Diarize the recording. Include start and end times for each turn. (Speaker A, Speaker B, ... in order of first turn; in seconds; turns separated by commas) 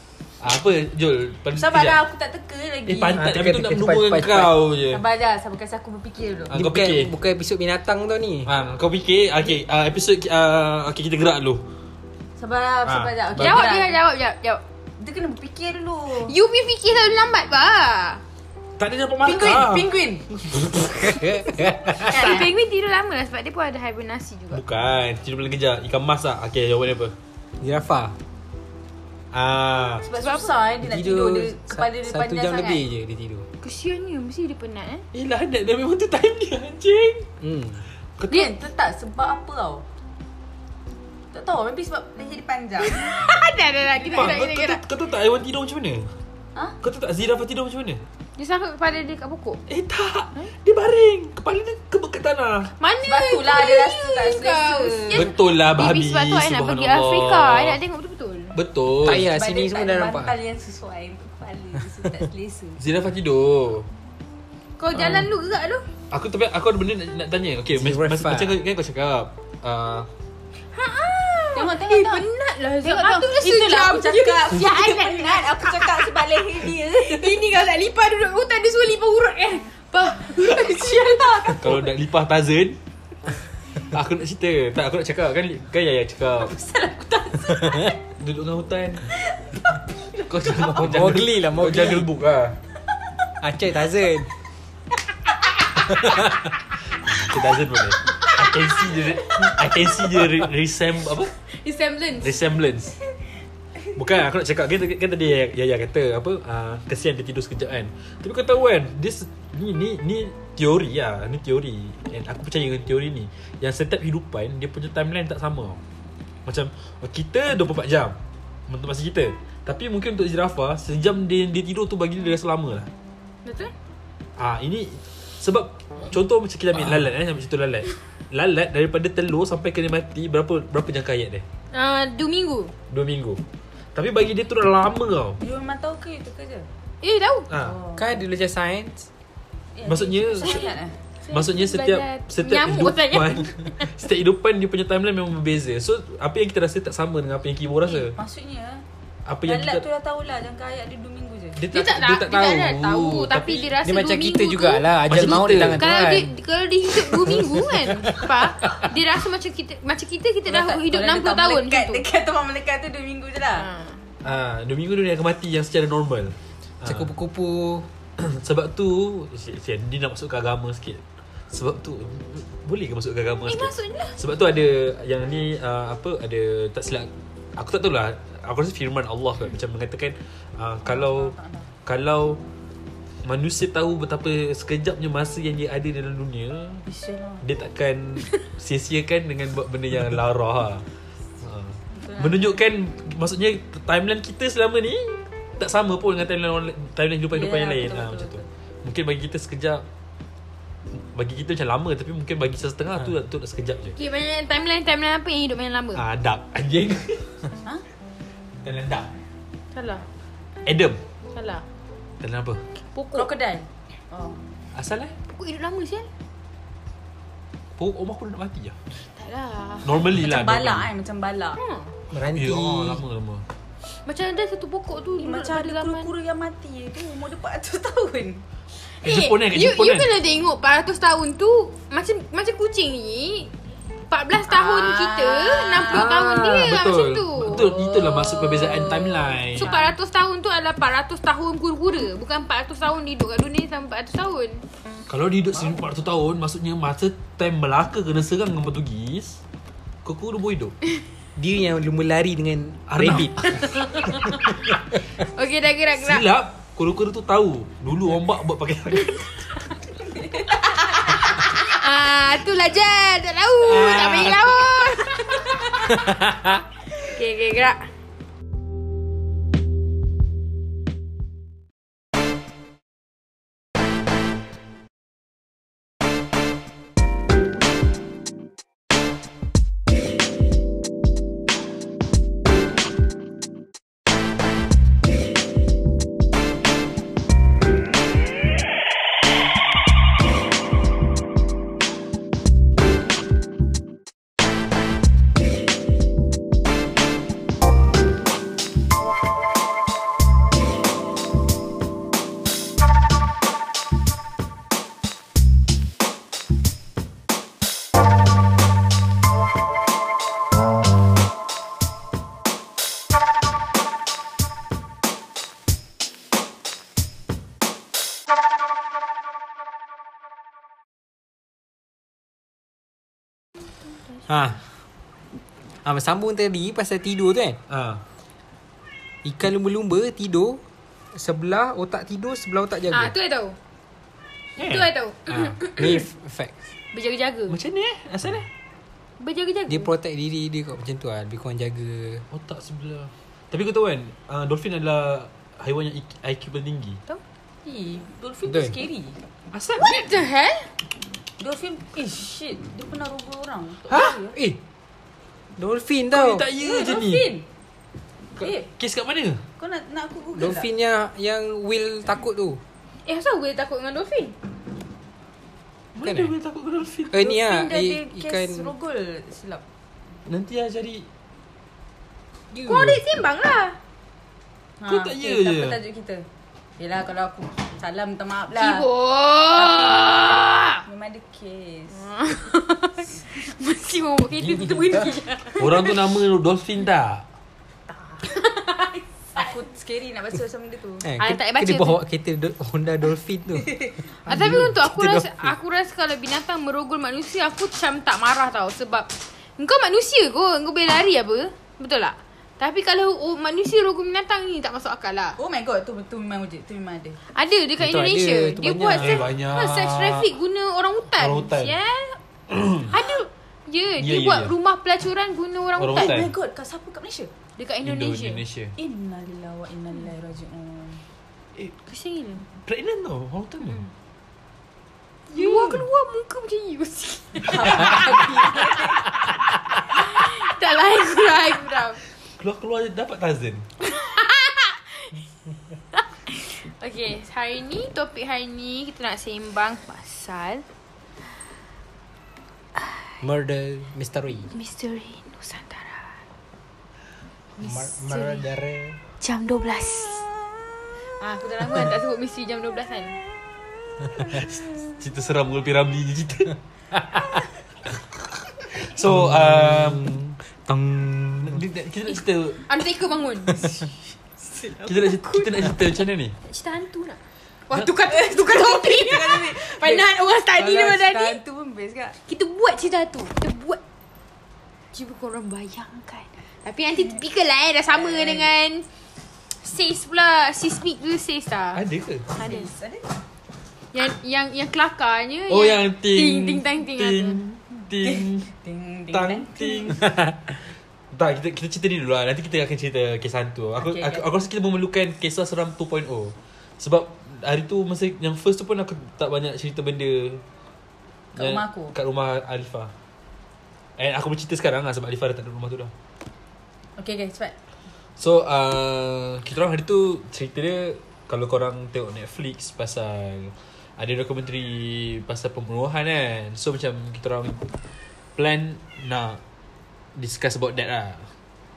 Speaker A: 0.4-2.0, Speaker B: 1.5-3.3, Speaker A: 2.9-5.0, Speaker C: 3.1-4.7, Speaker B: 4.9-6.6, Speaker C: 6.5-8.5, Speaker A: 6.5-7.1, Speaker A: 8.4-11.7, Speaker B: 12.4-14.0, Speaker A: 12.8-13.7, Speaker D: 13.4-14.6, Speaker B: 15.0-16.3, Speaker D: 16.2-18.2, Speaker A: 18.8-19.9, Speaker B: 19.1-20.7, Speaker C: 20.5-22.3, Speaker B: 21.9-22.5, Speaker D: 22.0-24.6, Speaker A: 24.5-27.1, Speaker C: 27.6-28.1, Speaker A: 29.3-30.1, Speaker B: 30.1-32.8, Speaker D: 30.2-30.5, Speaker C: 30.8-33.5, Speaker D: 33.6-35.0, Speaker A: 35.1-37.3, Speaker C: 37.4-37.8, Speaker B: 38.3-39.8, Speaker B: 41.3-43.1, Speaker D: 42.8-44.8, Speaker A: 44.0-46.1, Speaker A: 46.8-48.0, Speaker D: 48.4-49.6, Speaker A: 49.7-52.7, Speaker D: 52.8-58.6, Speaker B: 53.0-55.3, Speaker A: 55.1-57.8, Speaker A: 58.5-59.3, Speaker C: 59.0-60.3, Speaker B: 59.1-62.8, Speaker A: 62.8-63.9, Speaker D: 64.8-65.8, Speaker A: 66.1-70.1, Speaker C: 67.8-68.6, Speaker D: 70.7-81.6, Speaker B: 71.5-72.2, Speaker B: 72.8-77.5, Speaker B: 80.3-81.9, Speaker A: 81.6-82.8, Speaker A: 83.8-86.5, Speaker B: 86.4-87.9, Speaker C: 87.5-87.9, Speaker A: 88.2-89.0, Speaker A: 90.2-92.6, Speaker C: 90.6-92.1, Speaker C: 93.4-94.3, Speaker A: 95.8-101.3, Speaker D: 101.5-102.6, Speaker A: 102.2-102.9, Speaker A: 103.9-115.8, Speaker A: 116.5-122.9, Speaker D: 123.4-123.7, Speaker A: 124.4-131.4, Speaker D: 131.7-132.7, Speaker A: 132.9-133.4, Speaker A: 133.9-135.4, Speaker B: 135.4-136.7, Speaker D: 137.0-137.5, Speaker A: 137.5-137.8, Speaker B: 137.5-138.1, Speaker C: 137.9-139.1, Speaker B: 139.8-140.9, Speaker A: 139.8-140.7, Speaker D: 141.2-143.9, Speaker A: 141.3-148.2, Speaker B: 147.8-148.8, Speaker A: 149.2-149.8, Speaker B: 149.4-151.6, Speaker A: 151.6-153.8, Speaker D: 151.7-162.0, Speaker C: 153.8-156.3, Speaker A: 155.0-155.9, Speaker C: 157.1-158.9, Speaker B: 160.5-163.7, Speaker D: 163.6-164.0, Speaker A: 164.2-167.1, Speaker C: 166.8-167.9, Speaker A: 168.2-182.4, Speaker D: 173.4-174.2, Speaker B: 180.8-181.7, Speaker A: 183.2-186.8, Speaker B: 186.8-187.4, Speaker A: 187.4-190.8, Speaker A: 191.4-199.8, Speaker B: 191.9-192.5, Speaker B: 197.3-198.4, Speaker A: 200.9-204.0, Speaker D: 203.9-206.0, Speaker A: 205.9-207.4, Speaker A: 208.6-209.1, Speaker D: 209.7-210.0, Speaker A: 210.7-211.0, Speaker D: 211.3-211.6, Speaker A: 212.2-212.6, Speaker D: 212.9-213.3, Speaker B: 213.1-214.4, Speaker A: 214.7-215.2, Speaker D: 215.3-216.1, Speaker A: 217.8-218.7, Speaker D: 219.2-219.9, Speaker A: 219.8-220.9, Speaker B: 220.2-221.6, Speaker D: 221.6-221.9, Speaker C: 222.1-223.0, Speaker A: 222.3-223.4, Speaker D: 224.1-226.1, Speaker B: 225.2-228.4, Speaker D: 229.0-233.5, Speaker A: 229.0-230.1, Speaker D: 234.1-237.7, Speaker B: 234.5-236.2, Speaker A: 235.8-239.7, Speaker B: 237.4-239.9, Speaker D: 239.6-244.6, Speaker A: 245.1-249.4, Speaker A: 250.0-250.8, Speaker C: 251.3-253.3, Speaker A: 252.9-253.6, Speaker D: 253.6-254.3, Speaker D: 255.2-256.3, Speaker A: 255.9-259.5, Speaker D: 260.8-266.0, Speaker A: 263.6-265.1, Speaker A: 265.9-266.6, Speaker D: 266.9-267.8, Speaker A: 324.3-324.6, Speaker C: 325.8-327.6, Speaker A: 327.7-328.0, Speaker C: 329.2-330.6, Speaker C: 331.1-333.1, Speaker D: 332.9-333.6, Speaker A: 334.6-335.6, Speaker D: 334.6-336.1, Speaker C: 335.8-336.7, Speaker D: 336.9-337.6, Speaker A: 337.5-338.5, Speaker D: 339.2-339.9, Speaker C: 339.7-342.2, Speaker A: 342.3-347.0, Speaker B: 347.6-349.2, Speaker C: 348.4-348.7, Speaker A: 349.5-350.0, Speaker D: 349.8-350.7, Speaker B: 351.4-354.4, Speaker C: 353.9-354.6, Speaker C: 355.6-356.5, Speaker A: 356.1-357.3, Speaker B: 356.6-357.4, Speaker A: 358.4-359.4, Speaker B: 358.4-358.7, Speaker B: 359.6-360.7, Speaker C: 360.4-362.6, Speaker D: 363.0-364.4, Speaker A: 365.9-367.2, Speaker C: 366.0-366.3, Speaker C: 367.1-368.7, Speaker B: 367.1-369.6, Speaker A: 370.3-371.1, Speaker C: 372.5-373.0, Speaker D: 372.6-373.8, Speaker B: 374.8-376.2, Speaker A: 374.9-375.8, Speaker B: 376.8-378.8, Speaker D: 378.5-380.8, Speaker B: 379.6-382.0, Speaker D: 381.9-386.0, Speaker A: 385.6-387.2, Speaker D: 388.2-389.0, Speaker B: 389.3-391.1, Speaker C: 391.0-395.5, Speaker D: 391.2-392.0, Speaker D: 394.2-405.4, Speaker B: 405.4-407.2, Speaker D: 407.3-412.2, Speaker C: 407.8-409.3, Speaker A: 409.0-410.3, Speaker A: 411.2-411.8, Speaker A: 412.5-412.9, Speaker D: 412.9-416.2, Speaker A: 414.0-414.5, Speaker A: 415.8-416.3, Speaker B: 415.8-417.3, Speaker D: 417.6-418.4, Speaker A: 417.8-418.7, Speaker B: 418.8-421.0, Speaker D: 421.6-422.4, Speaker A: 422.6-423.8, Speaker D: 425.3-429.0, Speaker B: 425.3-425.8, Speaker B: 427.4-429.1, Speaker A: 427.6-428.2, Speaker A: 429.5-430.1, Speaker D: 429.8-432.0, Speaker A: 432.4-433.7, Speaker D: 433.8-435.1, Speaker D: 435.9-440.6, Speaker D: 442.8-443.1, Speaker C: 443.2-444.5, Speaker D: 444.5-446.2, Speaker D: 447.6-448.5, Speaker C: 447.6-449.0, Speaker D: 449.2-450.3, Speaker D: 451.2-453.2, Speaker A: 454.3-457.2, Speaker A: 458.6-460.1, Speaker C: 459.0-461.6, Speaker A: 461.4-462.6, Speaker D: 462.7-463.6, Speaker B: 464.4-465.7, Speaker A: 464.8-466.3, Speaker D: 466.4-471.4, Speaker B: 468.1-472.1, Speaker D: 472.2-473.8, Speaker D: 474.9-478.9, Speaker B: 478.0-478.5, Speaker D: 479.6-481.8, Speaker A: 481.7-482.3, Speaker B: 482.3-483.1, Speaker D: 482.4-482.7, Speaker D: 483.9-487.4, Speaker A: 485.5-488.5, Speaker B: 488.0-490.0, Speaker A: 489.1-490.5, Speaker A: 491.1-500.4, Speaker B: 493.8-494.2, Speaker B: 501.4-501.9, Speaker A: 501.4-502.9, Speaker A: 504.0-505.9, Speaker B: 507.0-507.5, Speaker A: 508.2-517.6, Speaker A: 518.4-519.4, Speaker A: 520.1-521.3